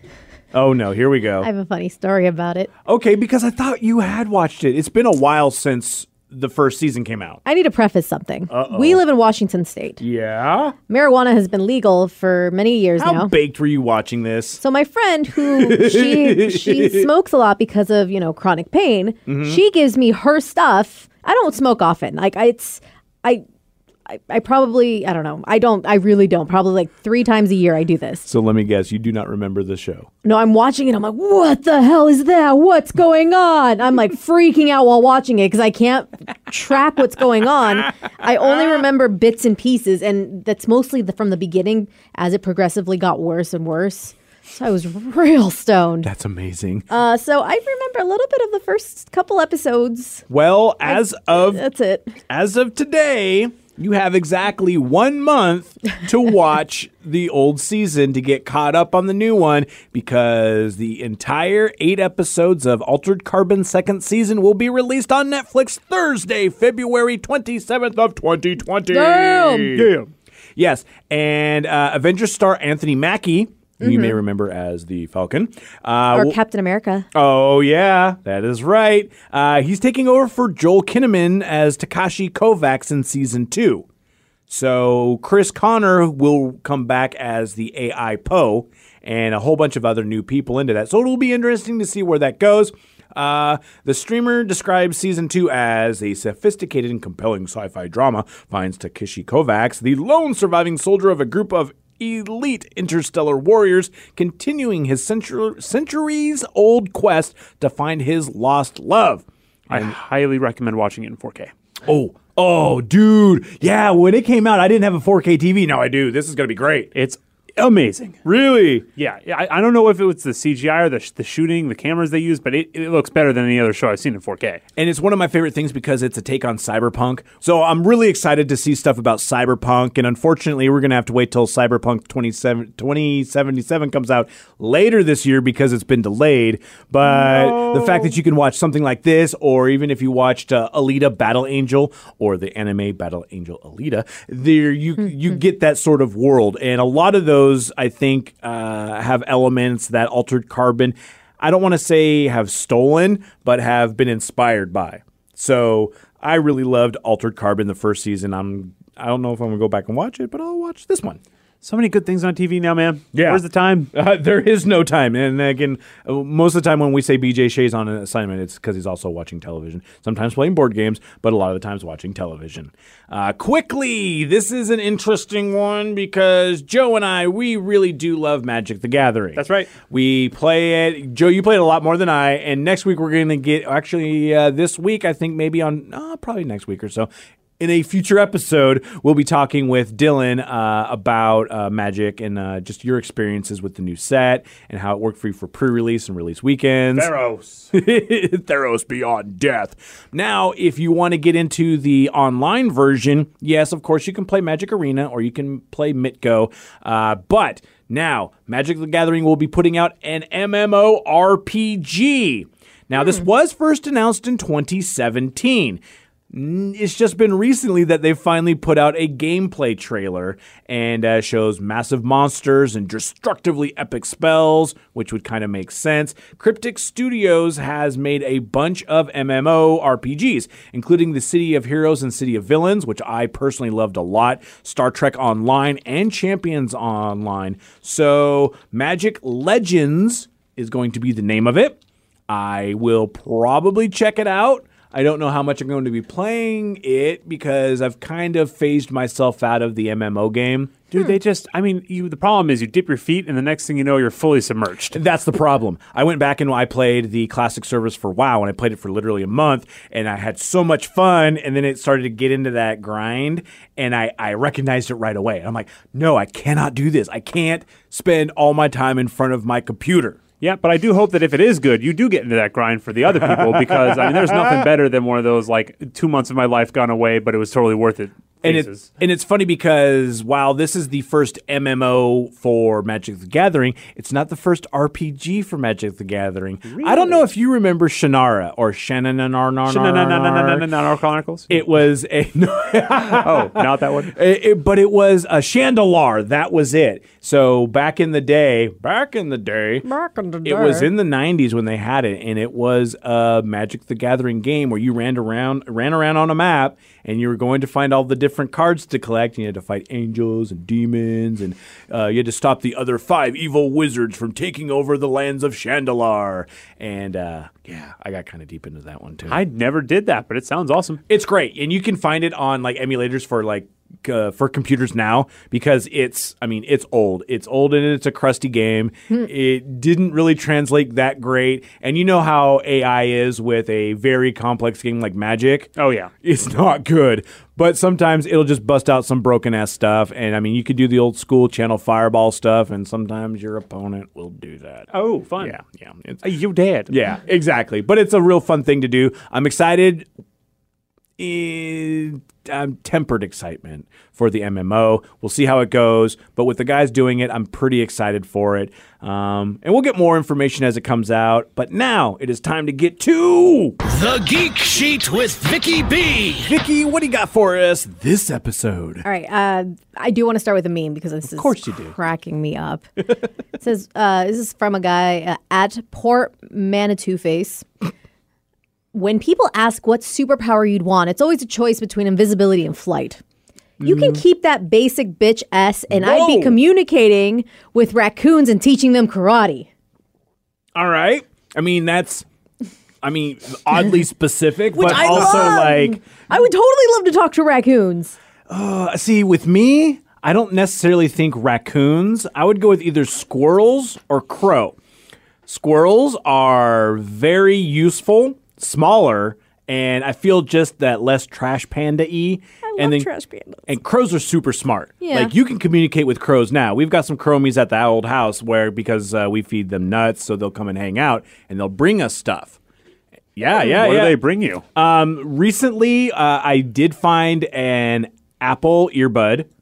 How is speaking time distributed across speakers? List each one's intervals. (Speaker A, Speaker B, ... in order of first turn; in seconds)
Speaker A: 0.5-1.5, 2.9-7.4, 8.5-9.0, 10.0-10.8, 13.0-14.6, 15.4-17.1, 19.3-19.6, 28.2-30.1, 46.0-46.9, 50.3-51.6, 52.3-70.0, 70.6-76.4, 77.1-83.9, 84.5-110.0, 111.8-116.9, 118.2-118.9, 124.8-161.2, 163.1-197.1, 197.7-215.8, 216.3-241.8, 242.3-250.8, 254.9-270.2, 273.2-274.7, 278.4-290.7, 291.5-299.9, 300.4-319.4, 321.1-335.7, 336.2-346.2, 346.9-350.1, 351.2-363.8, 366.3-369.1, 371.3-371.9, 383.8-384.2, 385.9-386.6, 390.8-392.2, 393.0-396.1, 398.5-404.8, 405.5-413.1, 413.7-422.6, 423.4-424.2, 424.8-429.5
Speaker B: 1.4-2.7, 7.5-10.0, 10.9-13.3, 14.6-23.4, 24.1-28.3, 30.2-46.1, 46.9-50.2, 50.9-52.1, 68.9-69.8, 73.8-74.2, 76.1-77.1, 299.8-300.9, 369.0-372.9, 373.6-377.7, 378.9-383.2, 383.8-389.7, 394.7-398.2, 412.6-413.7, 415.0-415.3
Speaker C: 69.7-70.1, 109.7-111.5, 117.0-118.2, 119.0-124.6, 137.2-137.8, 161.6-163.9, 179.4-179.7, 196.9-197.7, 250.9-255.0, 270.4-278.9, 286.6-287.2, 289.7-291.5, 293.1-294.2, 319.3-321.0, 335.8-336.1, 344.9-345.6, 346.2-346.9, 423.6-424.6
Speaker D: 363.9-366.3